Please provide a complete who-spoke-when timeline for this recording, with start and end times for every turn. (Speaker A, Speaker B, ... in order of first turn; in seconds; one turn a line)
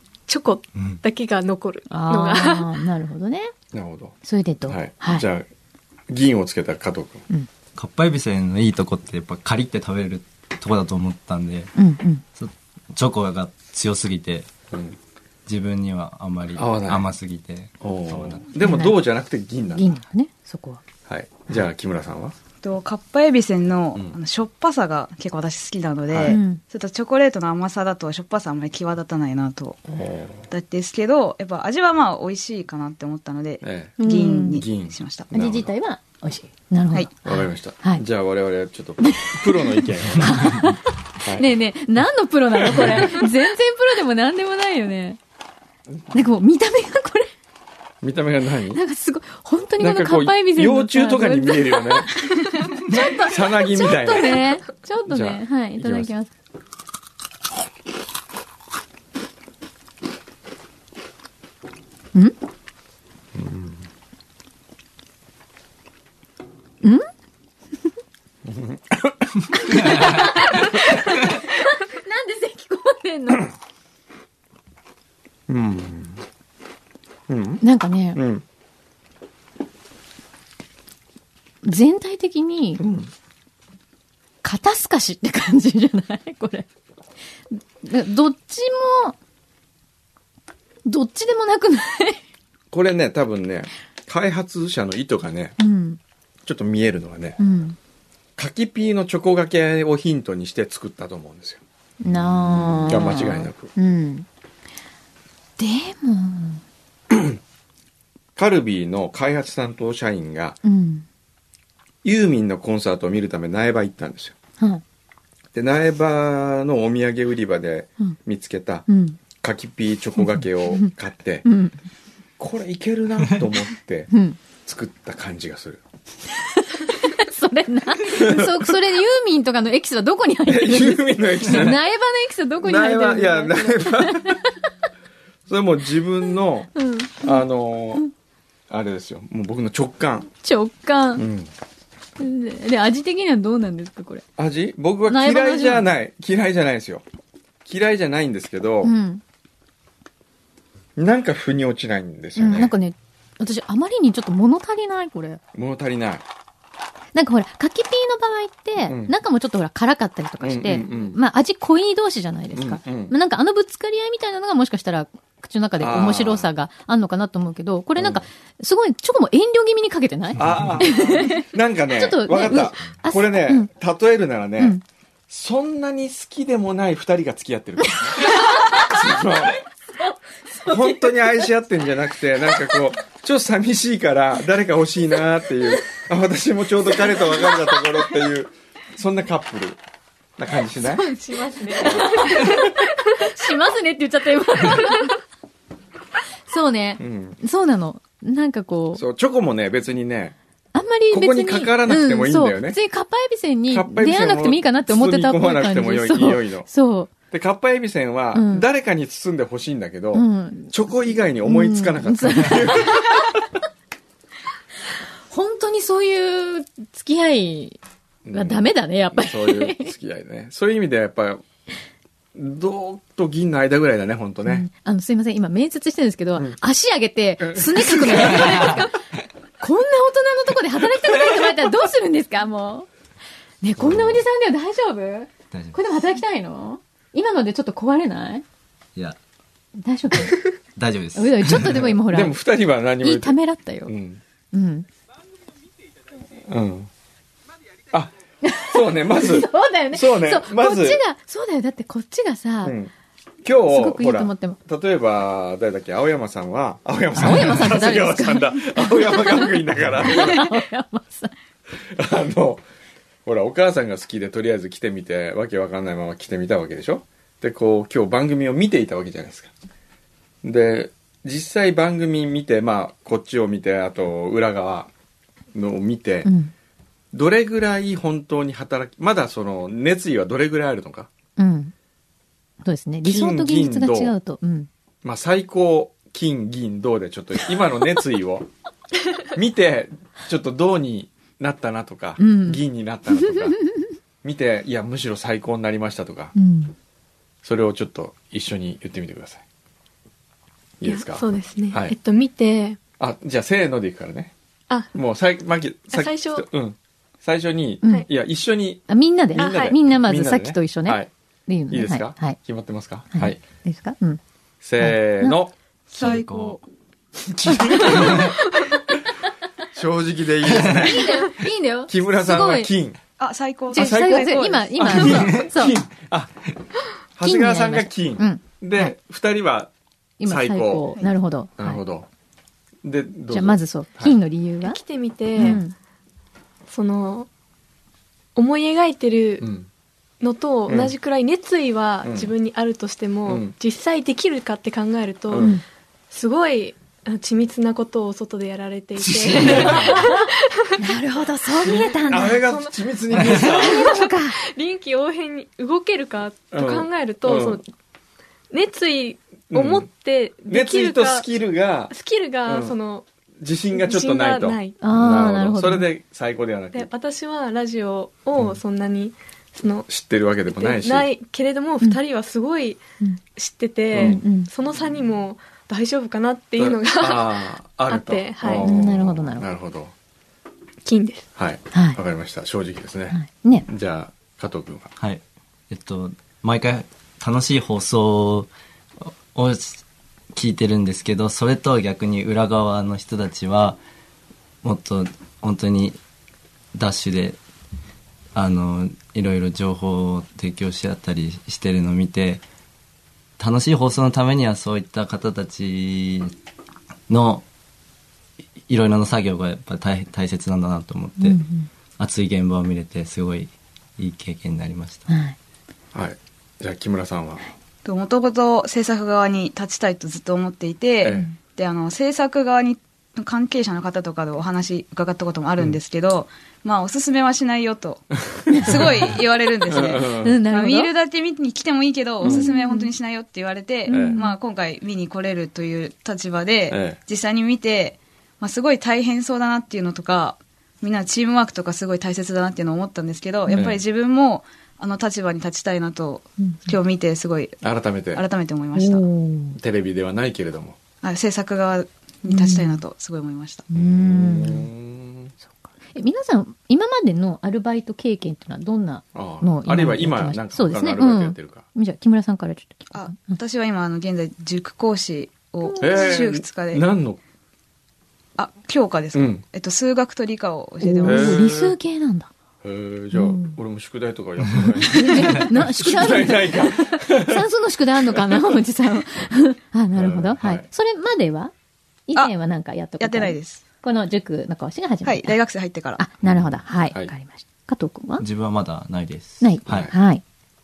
Speaker A: 0.3-2.7
Speaker B: 1.9-3.5
Speaker C: 3.7-4.2
Speaker B: 4.2-5.3
Speaker C: 4.7-5.5
Speaker C: 6.1-7.2
Speaker D: 7.8-11.7
Speaker B: 11.8-12.2
Speaker D: 12.4-14.5
Speaker C: 14.7-15.0
Speaker D: 15.5-18.5
Speaker C: 16.6-17.1
Speaker C: 17.8-19.9
Speaker B: 18.6-19.0
Speaker B: 19.7-20.8
Speaker C: 21.1-22.4
Speaker E: 22.6-29.8
Speaker C: 26.1-26.4
Speaker B: 26.3-26.6
Speaker C: 29.9-30.5
Speaker E: 30.5-35.3
Speaker C: 33.6-34.0
Speaker B: 34.0-34.6
Speaker C: 34.5-35.7
Speaker B: 35.3-38.0
Speaker C: 37.2-41.5
Speaker B: 39.0-45.2
Speaker C: 42.5-43.2
Speaker B: 46.1-47.3
Speaker C: 48.0-48.8
Speaker B: 48.7-56.3
Speaker C: 49.8-52.3
Speaker C: 52.9-54.5
Speaker C: 55.1-56.1
Speaker C: 63.3-63.9
Speaker B: 66.8-67.1
Speaker C: 68.5-70.7
Speaker B: 69.6-73.5
Speaker C: 75.5-76.2
Speaker C: 77.3-77.6
Speaker B: 77.6-78.2
Speaker C: 78.2-78.4
Speaker B: 81.6-82.8
Speaker C: 82.8-83.1
Speaker B: 84.4-86.7
Speaker B: 87.5-89.2
Speaker B: 90.9-92.2
Speaker C: 92.7-95.6
Speaker B: 95.6-96.0
Speaker C: 96.5-97.4
Speaker B: 97.4-97.8
Speaker C: 98.4-101.6
Speaker B: 102.0-104.3
Speaker C: 102.1-103.7
Speaker B: 105.6-106.6
Speaker C: 107.1-107.4
Speaker C: 108.4-110.6
Speaker B: 110.6-111.1
Speaker C: 112.0-114.3
Speaker C: 115.5-118.9
Speaker B: 118.9-119.2
Speaker C: 119.4-121.5
Speaker B: 121.5-121.8
Speaker C: 122.4-124.1
Speaker B: 124.1-124.4
Speaker C: 124.7-125.8
Speaker B: 126.4-134.6
Speaker C: 128.0-128.8
Speaker C: 130.5-131.8
Speaker C: 132.6-134.4
Speaker C: 135.5-138.1
Speaker B: 136.8-137.4
Speaker C: 138.7-140.3
Speaker B: 140.4-141.3
Speaker C: 141.2-141.5
Speaker B: 142.2-144.2
Speaker C: 144.4-147.0
Speaker B: 145.1-145.9
Speaker C: 147.7-148.9
Speaker B: 148.8-149.2
Speaker C: 151.0-152.7
Speaker B: 152.4-155.4
Speaker C: 155.5-156.2
Speaker B: 157.1-173.7
Speaker C: 158.8-159.2
Speaker C: 160.4-161.2
Speaker C: 162.6-163.1
Speaker C: 165.8-166.5
Speaker C: 168.0-168.2
Speaker C: 170.4-179.6
Speaker B: 177.9-179.0
Speaker B: 180.5-181.5
Speaker C: 180.7-189.8
Speaker C: 190.4-191.1
Speaker A: 190.9-192.7
Speaker B: 191.6-195.2
Speaker C: 191.8-192.6
Speaker B: 196.5-199.1
Speaker C: 197.0-197.4
Speaker C: 198.9-200.4
Speaker B: 200.7-207.1
Speaker C: 201.1-202.8
Speaker C: 203.7-206.7
Speaker C: 207.3-213.4
Speaker B: 208.3-208.7
Speaker B: 210.1-210.8
Speaker B: 211.4-213.4
Speaker B: 215.3-217.8
Speaker C: 218.2-221.4
Speaker B: 218.3-219.9
Speaker C: 222.3-224.7
Speaker B: 224.4-229.0
Speaker C: 227.4-228.8
Speaker B: 229.6-232.9
Speaker B: 233.6-238.4
Speaker C: 233.8-234.2
Speaker D: 235.5-235.8
Speaker B: 239.8-240.5
Speaker D: 240.8-241.9
Speaker B: 241.2-242.4
Speaker C: 241.6-244.2
Speaker B: 243.0-243.9
Speaker B: 244.5-244.9
Speaker C: 246.5-246.9
Speaker B: 248.4-252.8
Speaker C: 248.6-251.0
Speaker C: 252.6-252.9
Speaker C: 253.4-260.6
Speaker B: 253.7-254.6
Speaker B: 257.2-261.3
Speaker C: 261.8-262.6
Speaker C: 263.2-269.5
Speaker C: 270.4-274.9
Speaker C: 275.5-276.3
Speaker B: 276.2-276.5
Speaker C: 277.1-281.1
Speaker B: 281.4-281.7
Speaker B: 282.6-284.7
Speaker C: 283.0-284.1
Speaker C: 285.0-288.5
Speaker C: 289.3-293.6
Speaker B: 292.2-292.6
Speaker B: 293.2-293.9
Speaker C: 294.2-296.3
Speaker B: 296.4-296.8
Speaker C: 297.4-299.4
Speaker C: 300.8-301.9
Speaker A: 300.8-302.8
Speaker C: 303.0-304.3
Speaker C: 304.9-311.1
Speaker A: 305.9-306.4
Speaker B: 308.9-312.4
Speaker C: 311.7-313.4
Speaker B: 313.1-314.2
Speaker C: 314.6-315.5
Speaker B: 314.8-315.4
Speaker E: 315.9-316.6
Speaker D: 316.0-316.6
Speaker C: 317.2-318.4
Speaker A: 318.2-318.6
Speaker C: 319.7-321.4
Speaker B: 320.7-322.7
Speaker C: 321.9-323.0
Speaker E: 323.2-325.1
Speaker B: 323.7-325.8
Speaker C: 323.7-326.6
Speaker C: 327.2-329.7
Speaker B: 327.2-328.9
Speaker B: 330.2-331.8
Speaker C: 330.2-330.9
Speaker C: 331.6-332.1
Speaker C: 332.8-334.2
Speaker B: 333.3-334.8
Speaker A: 334.6-335.6
Speaker B: 335.4-335.7
Speaker A: 336.7-337.3
Speaker A: 338.4-339.5
Speaker C: 339.4-339.7
Speaker A: 340.2-345.6
Speaker C: 340.7-340.9
Speaker C: 342.0-342.3
Speaker C: 343.3-343.5
Speaker A: 346.1-350.8
Speaker C: 349.1-350.0
Speaker B: 349.6-352.4
Speaker C: 351.6-354.1
Speaker A: 352.4-357.7
Speaker B: 353.4-354.4
Speaker C: 356.5-357.6
Speaker A: 358.5-361.3
Speaker C: 359.5-359.9
Speaker C: 360.5-361.9
Speaker A: 361.9-363.1
Speaker C: 362.5-362.8
Speaker C: 363.4-366.9
Speaker A: 363.7-364.8
Speaker B: 364.8-365.9
Speaker A: 366.7-369.9
Speaker C: 369.9-371.1
Speaker A: 370.5-372.8
Speaker A: 373.4-378.7
Speaker C: 373.9-374.2
Speaker B: 374.0-374.5
Speaker C: 376.6-379.9
Speaker B: 378.6-379.5
Speaker A: 380.9-381.3
Speaker C: 381.4-384.9
Speaker B: 381.7-382.0
Speaker B: 383.1-383.7
Speaker D: 385.0-388.5
Speaker D: 389.0-389.8
Speaker D: 390.3-393.8
Speaker D: 394.6-396.0
Speaker D: 396.7-397.4
Speaker D: 398.4-402.4
Speaker D: 403.4-406.3
Speaker D: 407.1-407.4
Speaker D: 408.7-411.4
Speaker B: 411.2-411.7
Speaker D: 412.0-415.1
Speaker B: 415.1-415.4
Speaker C: 415.9-417.5
Speaker E: 417.9-447.6
Speaker C: 421.0-421.3
Speaker C: 428.3-430.4
Speaker B: 428.5-428.9
Speaker B: 429.9-430.9
Speaker C: 432.2-432.5
Speaker B: 432.2-432.9
Speaker B: 433.9-434.4
Speaker C: 433.9-434.2
Speaker C: 436.7-437.0
Speaker C: 443.5-443.8
Speaker B: 446.4-446.7
Speaker C: 447.6-448.2
Speaker E: 448.1-449.1
Speaker B: 448.8-449.6
Speaker C: 449.6-450.8
Speaker E: 451.0-453.7
Speaker B: 452.3-452.8
Speaker B: 453.7-454.7
Speaker C: 453.7-455.3
Speaker B: 455.5-463.4
Speaker C: 459.1-461.7
Speaker E: 462.9-466.8
Speaker B: 465.6-466.2
Speaker C: 465.8-467.2
Speaker E: 468.4-471.5
Speaker C: 469.1-469.4
Speaker B: 470.8-472.3
Speaker C: 471.0-471.8
Speaker C: 472.6-477.5
Speaker B: 473.1-473.6
Speaker B: 474.9-481.5
Speaker C: 478.1-478.5
Speaker C: 479.9-480.7
Speaker B: 482.1-485.4
Speaker E: 483.0-483.6
Speaker E: 485.0-486.0
Speaker B: 486.0-488.2
Speaker C: 486.2-487.1
Speaker D: 488.2-489.9
Speaker B: 489.4-490.2
Speaker C: 489.7-489.9